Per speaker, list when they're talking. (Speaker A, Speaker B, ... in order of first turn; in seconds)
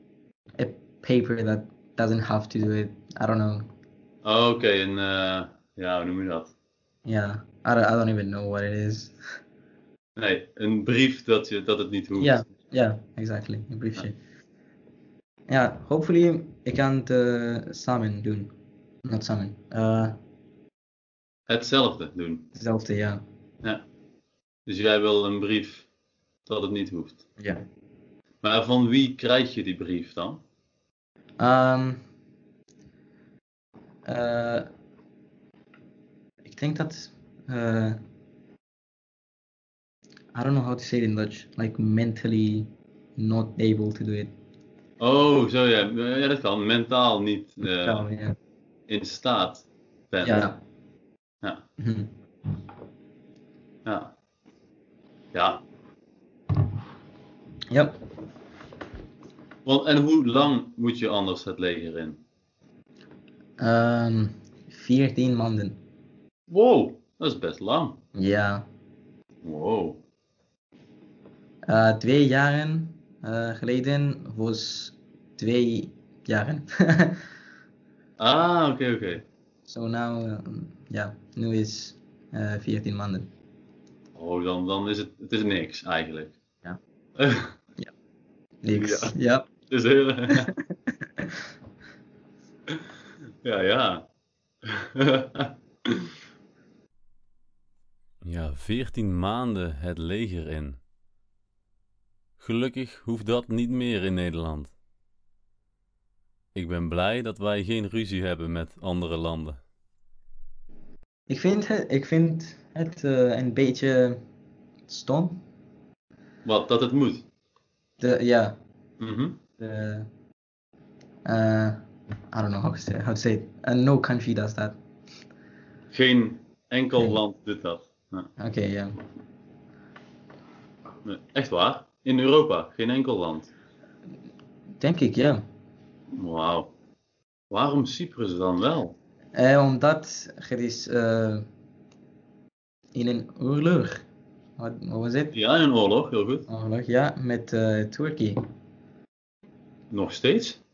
Speaker A: 0.6-3.7, 7.0-9.2, 12.2-14.2, 15.5-18.5, 19.1-20.1, 22.5-23.2, 31.4-32.0, 34.0-34.7, 36.4-38.0, 40.3-44.3, 47.6-48.3, 50.2-50.6, 51.8-52.1, 57.7-58.0, 63.6-65.8, 68.1-68.6, 71.7-77.2, 79.7-83.3, 88.6-89.5, 90.3-90.6, 111.3-114.2, 114.9-115.4, 118.0-118.6, 119.6-120.1, 121.2-124.8, 128.4-128.9, 134.8-135.4, 139.3-141.5, 142.9-144.0, 144.6-145.3, 146.5-148.4
Speaker B: 4.2-6.5, 10.2-12.4, 21.5-22.5, 24.6-25.9, 26.5-27.2, 28.4-30.4, 45.0-48.0, 48.9-50.5, 53.8-54.1, 55.3-55.6, 59.6-62.2, 66.5-68.0, 69.4-70.0, 78.2-79.2, 84.2-86.4, 87.2-87.6, 88.7-90.5, 93.4-94.1, 94.6-96.1, 116.4-117.3, 119.0-119.4, 125.9-128.3, 131.0-133.5, 136.2-136.7, 137.5-138.9, 145.3-146.5, 149.9-150.6
Speaker C: 98.2-100.8, 102.4-104.7, 106.5-109.6